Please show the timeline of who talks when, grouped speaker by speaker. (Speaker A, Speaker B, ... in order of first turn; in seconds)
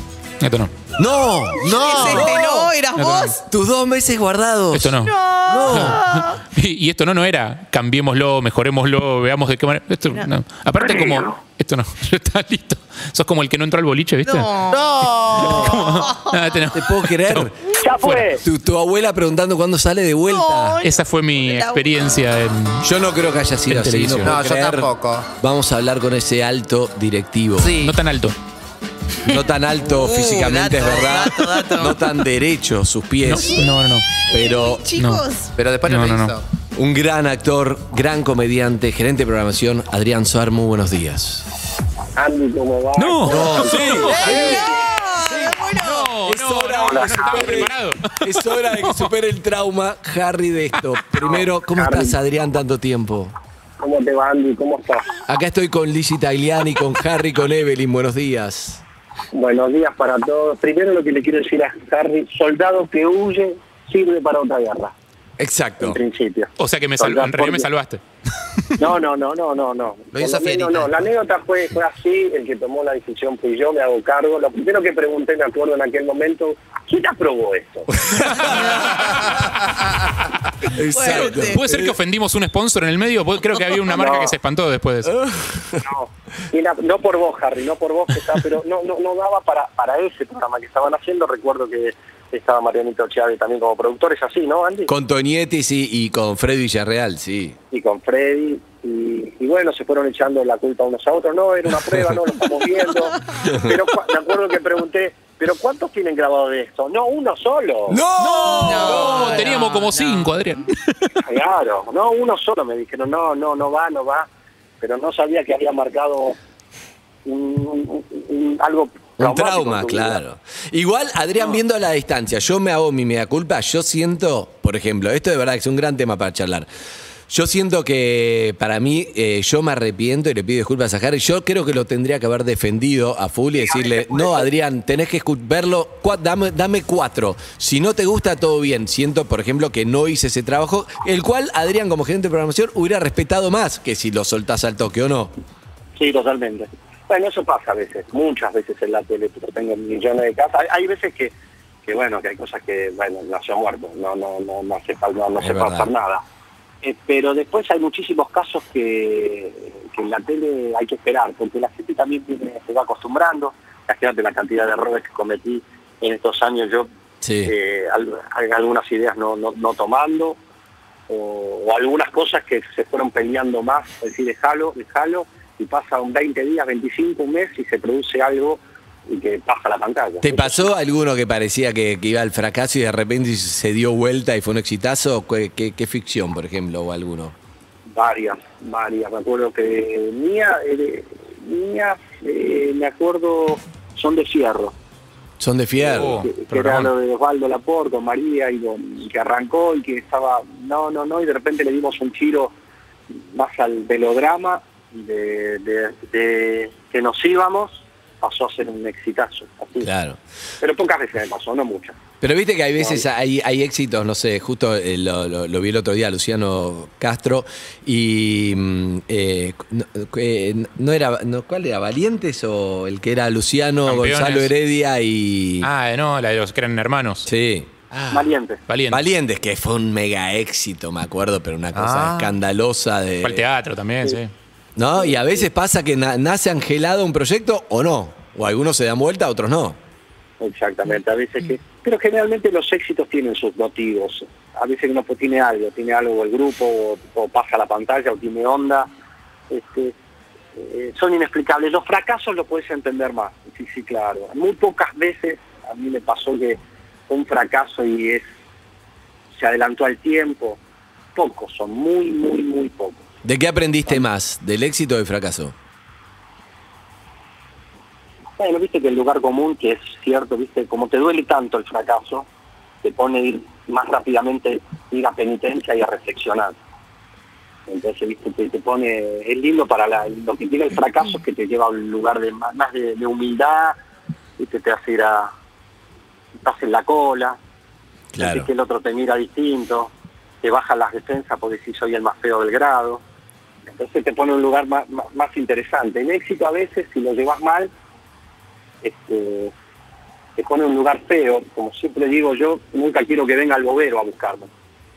Speaker A: 0.4-0.7, 3.0-3.4, 4.7-5.2, 5.7-14.5, 15.3-18.3, 20.8-22.9, 23.7-24.4, 27.8-28.4, 33.2-34.1, 34.9-35.2, 35.8-36.4, 43.0-44.6, 45.8-49.1, 66.6-68.0, 81.0-85.2, 108.2-111.2, 195.9-196.9, 223.8-224.5, 225.6-227.3, 228.7-229.0, 233.2-234.3
Speaker B: 1.0-2.7, 3.5-4.9, 5.5-6.0, 16.7-17.6, 18.4-20.8, 22.8-27.7, 29.3-33.7, 34.3-34.9, 36.7-41.5, 43.3-44.7, 45.3-45.7, 46.2-53.3, 55.3-58.8, 65.4-66.0, 77.9-79.4, 80.6-82.0, 85.1-85.8, 94.9-97.5, 103.5-103.7, 107.9-109.5, 119.2-126.7, 127.3-145.3, 155.4-155.9, 167.2-167.5, 180.2-187.3, 195.4-196.3, 209.8-210.2, 212.2-225.7, 227.3-228.3, 228.9-233.4, 234.8-239.8, 263.2-265.5, 288.1-288.5
Speaker C: 1.6-3.4, 5.0-6.4, 14.2-16.5, 20.3-22.1, 29.9-32.0, 34.3-35.5, 44.1-46.1, 78.5-78.8, 80.9-81.6, 108.3-110.3
Speaker D: 1.8-2.3, 14.7-16.0, 24.2-25.3, 27.6-28.0, 35.6-36.4, 44.1-44.6, 70.1-70.9, 231.7-232.3
Speaker E: 10.8-11.3, 17.8-18.4, 42.2-44.3, 46.9-47.6, 51.2-52.2, 53.8-55.1, 59.3-64.9, 65.8-67.7, 68.8-78.0, 83.9-84.3, 85.8-94.9, 97.7-108.0, 111.2-114.3, 114.8-116.4, 117.2-120.2, 133.6-134.5, 146.0-151.3, 151.8-156.2, 156.8-166.9, 167.4-170.4, 171.1-180.7, 187.9-194.7, 195.8-202.5, 203.3-209.9, 210.6-212.0, 212.8-213.0, 228.1-228.6, 235.0-235.4, 240.4-248.9, 249.5-249.9, 250.6-258.3, 259.4-260.6, 261.1-263.0, 268.4-272.3, 272.8-276.6, 277.7-283.8, 284.4-285.3, 286.4-287.4, 288.2-293.0, 293.7-297.7, 298.8-299.5, 300.4-304.5